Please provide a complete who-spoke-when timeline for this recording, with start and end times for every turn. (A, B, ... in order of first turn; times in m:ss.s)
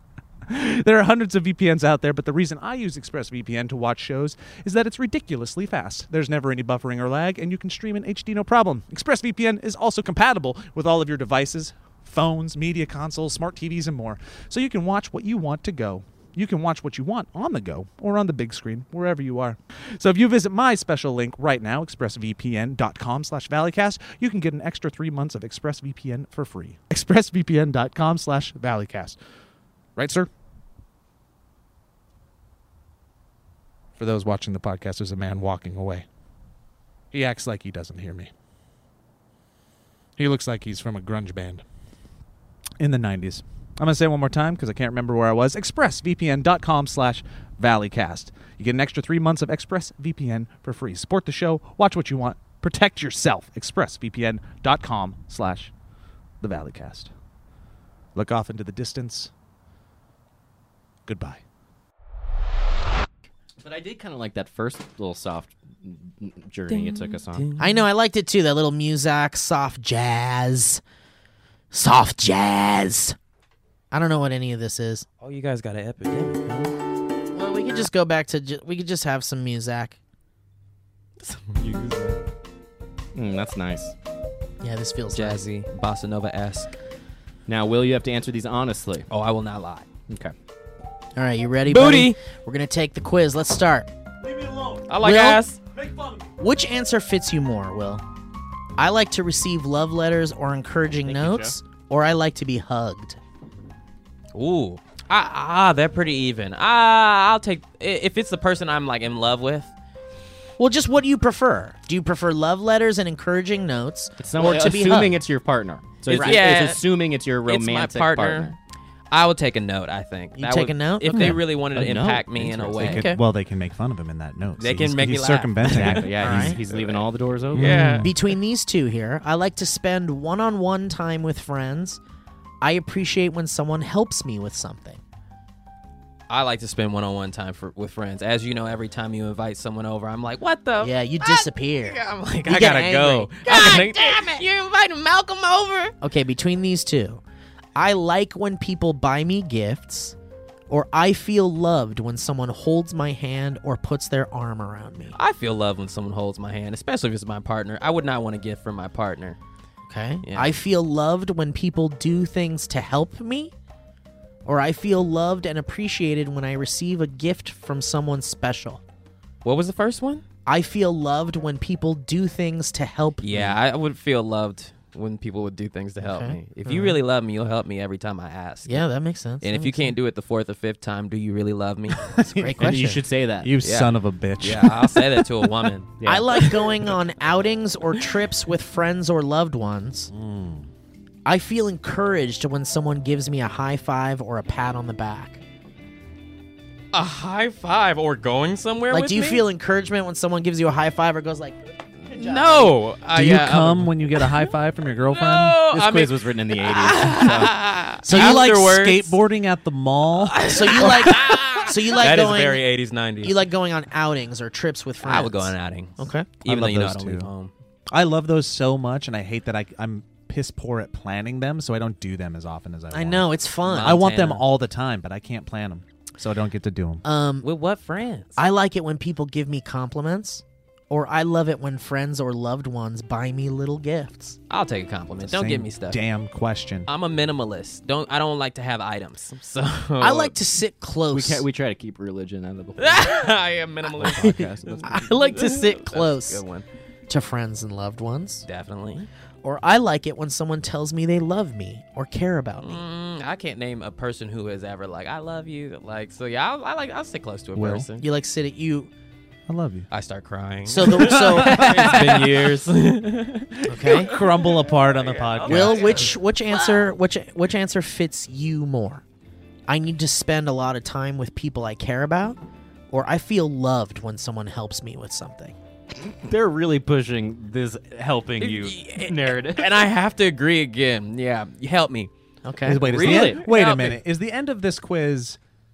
0:00.5-0:29.2 A
0:30.0-0:30.3 A
0:34.0-0:36.1 A
0:37.1-0:38.3 A
0:40.2-0:41.6 A
0:42.8-0:55.7 A
0:56.4-0:57.1 A
0:58.1-0:59.3 A
1:01.1-1:01.4 A
1:03.6-1:07.5 B
1:06.7-1:07.8 C
1:07.6-1:10.8 D
1:11.7-1:13.2 D
1:13.9-1:15.1 D
1:15.2-1:16.7 C
1:17.3-1:20.0 D
1:21.2-1:22.2 C
1:23.1-1:23.9 B
1:24.6-1:25.4 D
1:25.1-1:26.7 C
1:27.5-1:29.1 B
1:29.1-1:29.9 C
1:30.1-1:30.3 B
1:31.2-1:33.9 D
1:31.7-1:32.2 C
1:34.2-1:35.0 A
1:34.9-1:35.6 C
1:35.0-1:35.4 D
1:35.7-1:36.3 A
1:36.4-1:38.0 D
1:38.8-1:43.2 D
1:41.0-1:41.6 B
1:44.3-1:49.7 C
1:50.6-1:55.2 D
1:54.2-1:58.6 B
1:56.1-1:56.8 C
1:56.1-1:56.4 D
1:57.4-1:58.5 C
1:59.1-2:03.1 C
2:00.4-2:01.4 D
2:01.1-2:03.1 B
2:02.8-2:06.6 A
2:02.9-2:03.2 D
2:04.6-2:07.0 C
2:05.6-2:08.0 B
2:06.2-2:06.6 D
2:07.5-2:08.1 C
2:07.5-2:08.1 A
2:08.0-2:12.0 D
2:12.6-2:15.0 D
2:16.3-2:25.9 C
2:20.8-2:24.4 D
2:26.0-2:27.2 D
2:27.8-2:30.2 D
2:30.7-2:35.2 D
2:35.1-2:39.4 C
2:39.9-2:43.5 D
2:40.2-2:40.5 C
2:44.4-2:48.8 D
2:49.4-2:50.2 C
2:50.5-2:53.6 D
2:53.2-2:58.9 C
2:56.0-2:57.0 D
2:58.7-2:59.9 D
2:59.4-3:02.1 C
3:02.0-3:05.7 A
3:02.2-3:03.0 D
3:02.6-3:03.5 B
3:03.6-3:05.9 C
3:06.0-3:06.5 B
3:06.0-3:10.1 D
3:10.1-3:10.7 A
3:11.2-3:15.4 D
3:16.9-3:19.4 C
3:18.9-3:22.8 D
3:22.1-3:24.4 C
3:23.1-3:25.6 A
3:25.1-3:29.2 C
3:25.7-3:27.6 B
3:28.0-3:28.5 D
3:28.1-3:31.4 A
3:30.2-3:33.5 C
3:30.4-3:32.6 D
3:33.2-3:36.3 D
3:35.0-3:37.5 C
3:36.4-3:37.3 A
3:37.9-3:43.3 A
3:42.9-3:44.0 D
3:43.6-3:44.4 C
3:43.8-3:47.0 A
3:47.0-3:47.5 D
3:47.4-3:48.4 C
3:48.4-3:54.4 D
3:54.5-3:56.0 C
3:55.2-3:56.9 A
3:56.9-4:00.4 C
4:00.0-4:01.4 D
4:01.1-4:03.3 B
4:02.8-4:06.6 C
4:03.9-4:05.1 B
4:04.2-4:06.4 D
4:07.1-4:08.4 D
4:08.5-4:09.1 C
4:09.4-4:12.8 D
4:12.6-4:18.0 C
4:17.6-4:17.9 A
4:18.0-4:18.9 D
4:19.5-4:19.9 A
4:19.9-4:26.9 C
4:20.7-4:21.9 D
4:20.8-4:22.4 A
4:23.6-4:24.1 D
4:23.8-4:26.1 A
4:25.4-4:29.0 D
4:29.7-4:32.4 D
4:32.9-4:35.6 D
4:36.0-4:39.7 B
4:38.4-4:42.1 C
4:42.4-4:42.9 D
4:42.6-4:45.4 A
4:42.8-4:44.0 C
4:42.9-4:43.4 B